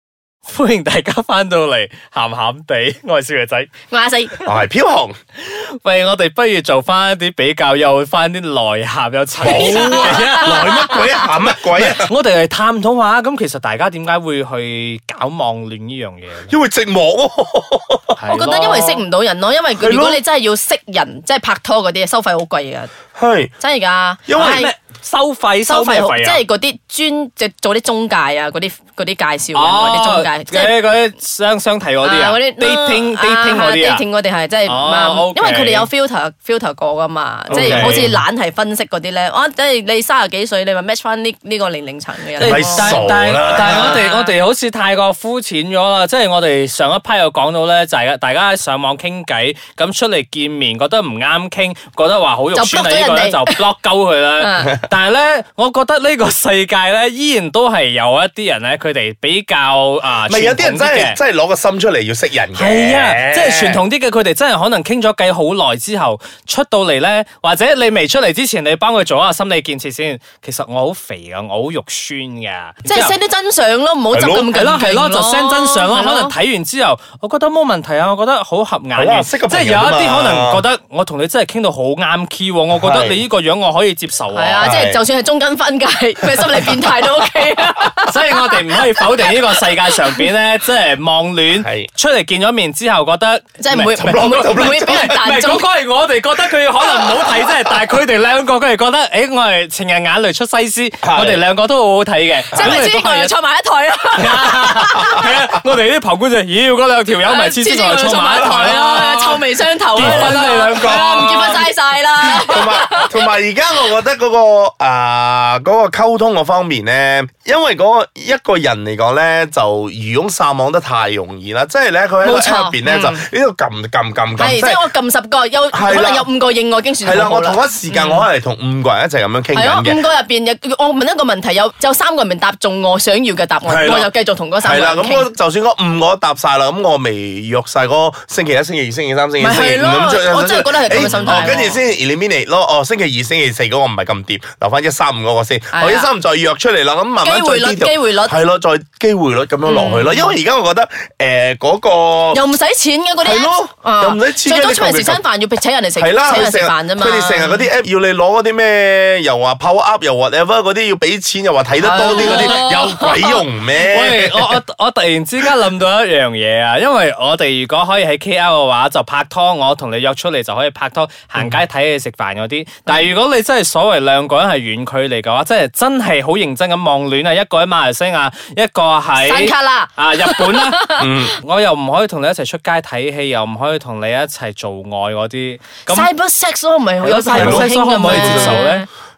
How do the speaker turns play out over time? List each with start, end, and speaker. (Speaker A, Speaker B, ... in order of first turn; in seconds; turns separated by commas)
Speaker A: 0.5-3.7, Speaker B: 3.9-4.5, Speaker C: 4.5-5.2, Speaker A: 5.4-11.1, Speaker C: 9.4-12.1, Speaker B: 9.5-11.0, Speaker A: 11.8-16.5, Speaker C: 16.5-18.2, Speaker A: 18.2-19.0, Speaker B: 18.3-22.9, Speaker C: 19.8-20.2, Speaker C: 23.1-23.5, Speaker B: 23.6-24.7, Speaker C: 24.3-24.7, Speaker A: 24.4-26.4, Speaker B: 25.6-30.9, Speaker A: 29.6-34.0, Speaker B: 32.0-44.4, Speaker A: 34.7-35.9, Speaker A: 37.5-38.1, Speaker C: 37.5-38.1, Speaker A: 42.4-61.2, Speaker C: 42.4-44.0, Speaker B: 52.5-53.6, Speaker B: 54.4-54.7, Speaker C: 60.3-63.8, Speaker A: 62.5-73.1, Speaker B: 72.9-76.3, Speaker C: 74.1-74.5, Speaker A: 74.5-84.7, Speaker C: 79.0-80.7, Speaker C: 82.7-83.2, Speaker B: 84.3-88.6, Speaker C: 84.6-85.0, Speaker A: 88.0-103.3, Speaker C: 91.5-91.9, Speaker B: 93.6-95.7, Speaker C: 94.0-95.1, Speaker C: 101.0-101.4, Speaker C: 102.5-102.8, Speaker B: 102.5-105.3, Speaker A: 104.1-109.2, Speaker B: 107.2-113.2, Speaker C: 108.6-109.4, Speaker A: 109.9-111.6, Speaker C: 110.0-111.7, Speaker C: 112.3-124.9, Speaker B: 122.2-123.3, Speaker B: 124.4-128.3, Speaker C: 125.7-126.3, Speaker C: 127.0-130.1, Speaker B: 129.5-135.3, Speaker C: 133.7-152.4, Speaker B: 139.4-141.8, Speaker A: 140.9-141.7, Speaker B: 145.7-146.1, Speaker B: 147.2-148.4, Speaker B: 149.7-150.4, Speaker B: 152.3-157.7, Speaker C: 153.2-155.2, Speaker C: 156.0-164.6, Speaker B: 161.8-163.4, Speaker A: 161.9-162.8, Speaker A: 163.8-186.1, Speaker B: 179.2-181.1, Speaker C: 181.0-181.4, Speaker B: 185.9-188.9, Speaker A: 187.0-188.8, Speaker C: 187.4-188.6